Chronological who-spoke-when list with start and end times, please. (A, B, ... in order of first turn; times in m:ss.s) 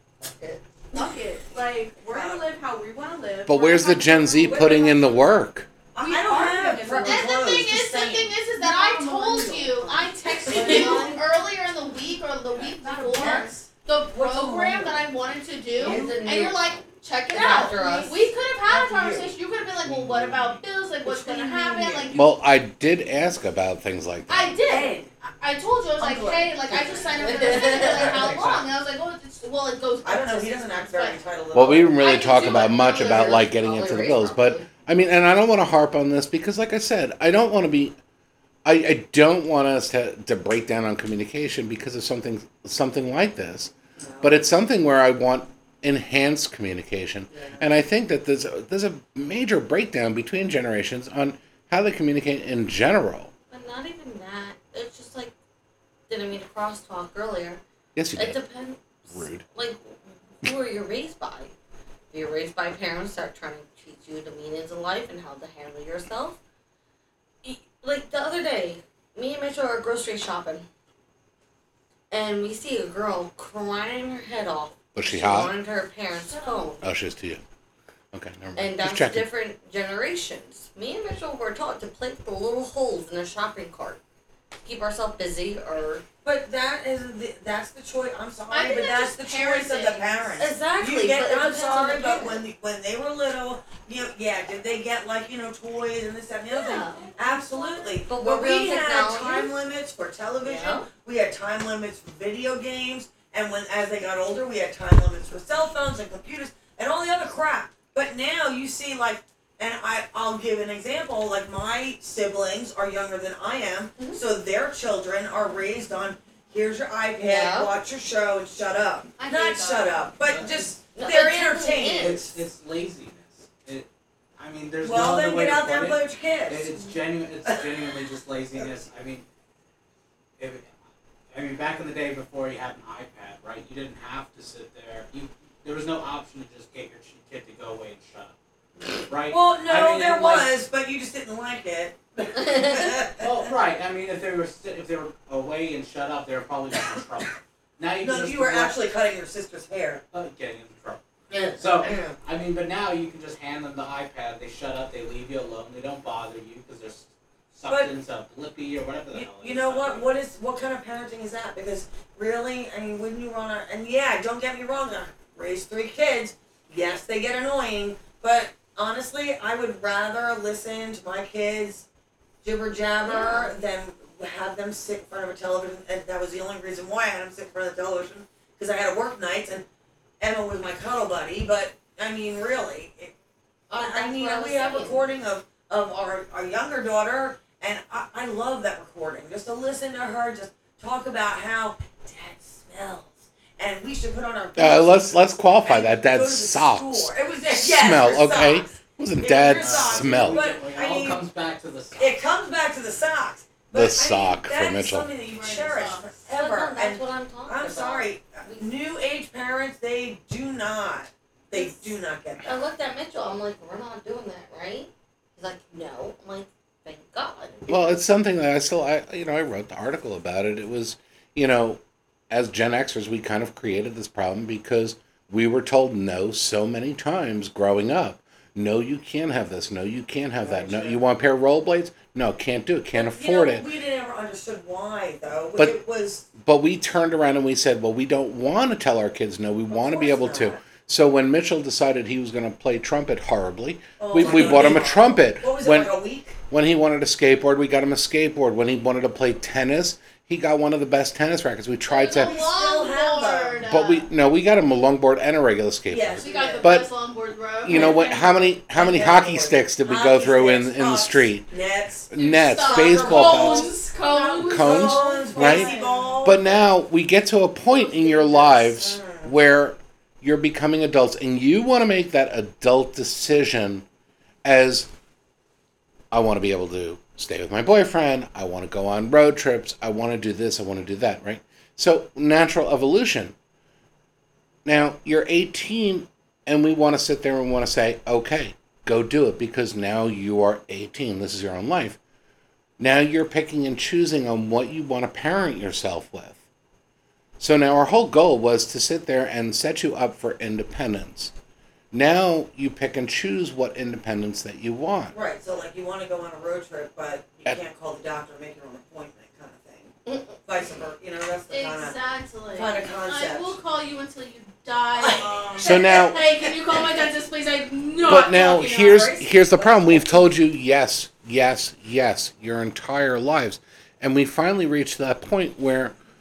0:00.2-0:00.6 A
0:00.9-0:01.4 B
0:01.0-0:05.1 C
0:02.1-0:02.4 D
0:03.4-0:05.7 E
0:04.5-0:04.9 D
0:05.9-0:08.4 D
0:06.0-0:07.5 C
0:07.0-0:22.3 B
0:08.5-0:11.2 C
0:10.5-0:11.1 D
0:10.5-0:11.1 A
0:12.7-0:13.7 C
0:13.2-0:13.5 D
0:14.1-0:15.0 D
0:15.8-0:18.2 A
0:15.8-0:16.2 D
0:17.6-0:18.1 D
0:18.7-0:19.3 D
0:20.1-0:20.4 F
0:21.0-0:22.1 D
0:22.1-0:24.5 E
0:24.3-0:31.2 B
0:24.6-0:25.1 D
0:26.0-0:28.6 D
0:27.2-0:28.4 A
0:30.0-0:32.0 D
0:31.5-0:38.0 E
0:32.0-0:33.5 B
0:32.8-0:34.7 A
0:38.6-0:53.3 E
0:44.0-0:44.5 D
0:47.3-0:47.6 D
0:53.5-0:55.3 A
0:56.1-0:57.6 A
0:58.0-0:58.4 E
0:58.2-1:01.5 A
0:59.1-0:59.4 E
1:02.1-1:06.4 A
1:07.4-1:10.6 A
1:12.1-1:16.8 A
1:14.9-1:15.5 E
1:16.1-1:16.8 D
1:16.8-1:17.4 E
1:18.1-1:19.2 E
1:18.6-1:24.0 A
1:24.6-1:26.0 A
1:26.2-2:02.4 D
1:28.5-1:30.4 B
1:30.4-1:32.4 A
1:36.5-1:37.2 A
1:36.8-1:38.0 C
1:38.0-1:39.5 A
1:40.4-1:40.9 A
1:57.2-1:57.7 A
1:59.2-2:00.0 A
2:00.2-2:00.6 F
2:00.9-2:02.2 A
2:02.0-2:09.2 F
2:04.8-2:06.7 D
2:10.4-2:10.7 F
2:11.3-2:18.3 F
2:18.8-2:20.5 F
2:19.3-2:23.3 D
2:22.4-2:22.8 A
2:23.2-2:28.8 F
2:28.0-2:30.0 D
2:30.1-2:31.0 F
2:31.3-2:32.2 A
2:31.6-2:40.1 F
2:39.1-2:51.8 D
2:52.4-2:59.6 D
2:53.0-2:53.5 A
3:00.2-3:03.1 D
3:03.7-3:05.0 A
3:03.7-3:21.2 D
3:14.6-3:20.4 E
3:19.5-3:22.2 F
3:22.0-3:32.7 D
3:23.7-3:25.1 E
3:25.3-3:26.1 B
3:26.3-3:28.7 A
3:31.5-3:31.8 A
3:32.4-3:37.7 A
3:37.7-3:53.7 E
3:50.4-3:51.0 D
3:52.9-3:56.3 D
3:56.4-4:05.9 E
3:59.7-4:00.6 D
4:04.0-4:06.4 D
4:06.5-4:12.4 E
4:11.9-4:14.1 B
4:12.1-4:13.6 D
4:13.6-4:16.9 E
4:15.9-4:16.7 D
4:16.2-4:18.0 B
4:17.6-4:21.5 E
4:17.6-4:23.7 D
4:22.1-4:23.7 E
4:22.1-4:25.0 B
4:23.9-4:26.2 C
4:24.4-4:26.4 D
4:24.4-4:25.7 E
4:26.2-4:33.8 E
4:27.9-4:29.3 D
4:34.4-4:34.9 E
4:36.1-4:43.3 E
4:44.6-4:52.0 E
4:52.8-4:56.4 E
4:57.4-5:01.3 E
5:01.9-5:05.1 E
5:05.1-5:09.9 D
5:10.4-5:12.0 D
5:11.5-5:18.4 B
5:12.5-5:13.5 D
5:15.0-5:16.4 D
5:15.6-5:16.2 E
5:18.0-5:25.9 E
5:18.1-5:20.3 D